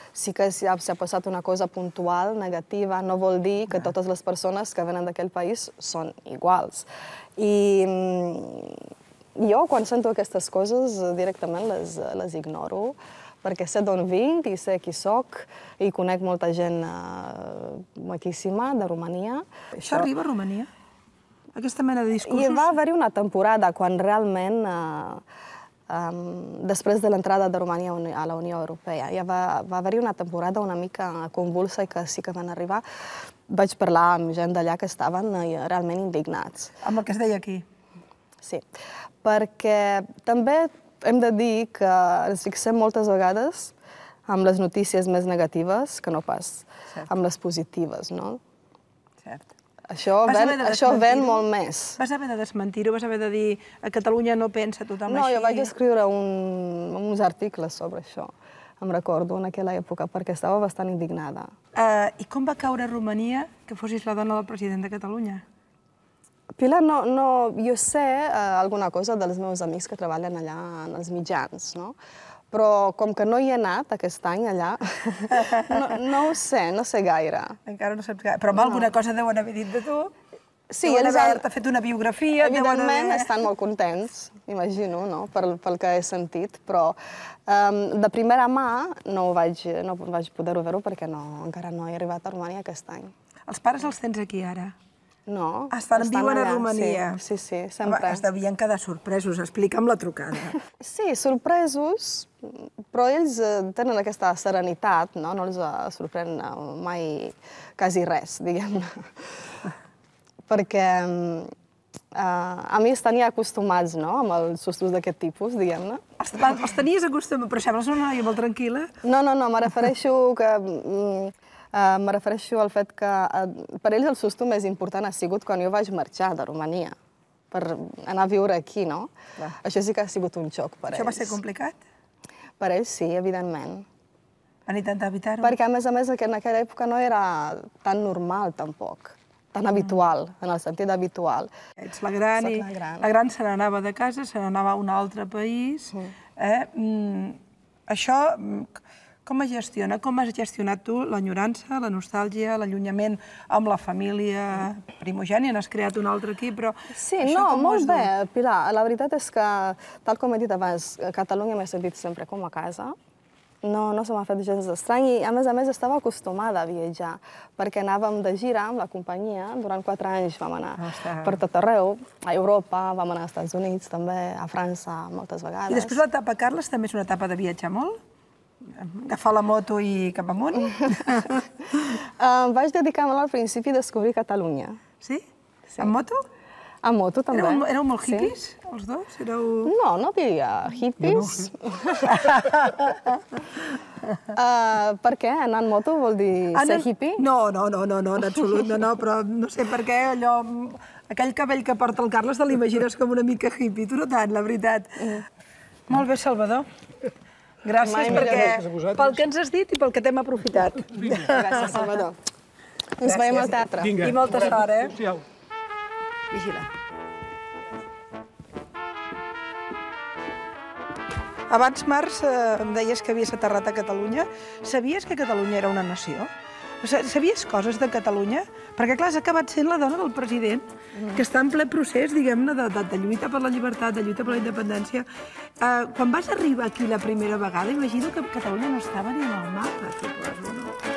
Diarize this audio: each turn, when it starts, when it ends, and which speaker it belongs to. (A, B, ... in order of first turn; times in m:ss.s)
0:00.1-0:06.8 A
0:07.4-0:08.8 A
0:09.4-0:20.1 A
0:19.8-0:20.7 B
0:21.5-0:22.6 B
0:22.3-0:25.2 A
0:25.9-0:32.8 A
0:33.5-0:36.8 A
0:36.8-0:37.6 B
0:39.2-0:43.7 A
0:44.3-0:48.4 A
0:49.9-0:52.0 A
0:50.2-0:51.4 B
0:52.0-0:55.7 B
0:55.1-1:01.5 A
1:01.8-1:05.4 B
1:06.6-1:11.9 A
1:12.5-1:17.6 A
1:17.7-1:20.1 B
1:18.6-1:18.9 A
1:20.7-1:21.4 A
1:20.8-1:23.3 B
1:22.4-1:27.0 A
1:27.5-1:33.1 A
1:33.5-1:34.7 B
1:35.3-1:38.2 A
1:35.7-1:37.2 B
1:37.8-1:40.6 B
1:40.7-1:49.1 A
1:50.5-1:51.5 A
1:52.1-1:56.0 A
1:56.2-1:58.9 B
1:59.0-2:06.9 A
2:07.5-2:09.1 A
2:09.6-2:11.4 A
2:10.9-2:11.8 B
2:12.6-2:13.8 A
2:14.6-2:15.5 B
2:15.4-2:21.5 A
2:21.8-2:38.1 B
2:22.4-2:23.1 A
2:36.9-2:43.0 A
2:43.6-2:56.0 A
2:50.8-2:51.3 B
2:55.7-2:58.0 B
2:58.7-3:01.4 B
3:00.9-3:01.2 A
3:01.8-3:04.8 A
3:05.8-3:06.2 B
3:06.8-3:08.3 A
3:07.3-3:09.7 B
3:09.6-3:12.4 A
3:12.1-3:13.0 B
3:14.3-3:17.2 A
3:16.5-3:25.2 B
3:25.9-3:26.6 B
3:27.6-3:31.8 B
3:27.8-3:28.6 A
3:27.8-3:29.2 C
3:31.0-3:31.3 C
3:31.3-3:32.2 A
3:33.0-3:34.0 A
3:33.0-3:34.9 B
3:33.8-3:35.2 C
3:36.3-3:36.7 B
3:41.5-3:46.3 B
3:46.8-3:55.0 B
3:51.0-3:51.2 A
3:55.6-4:00.7 B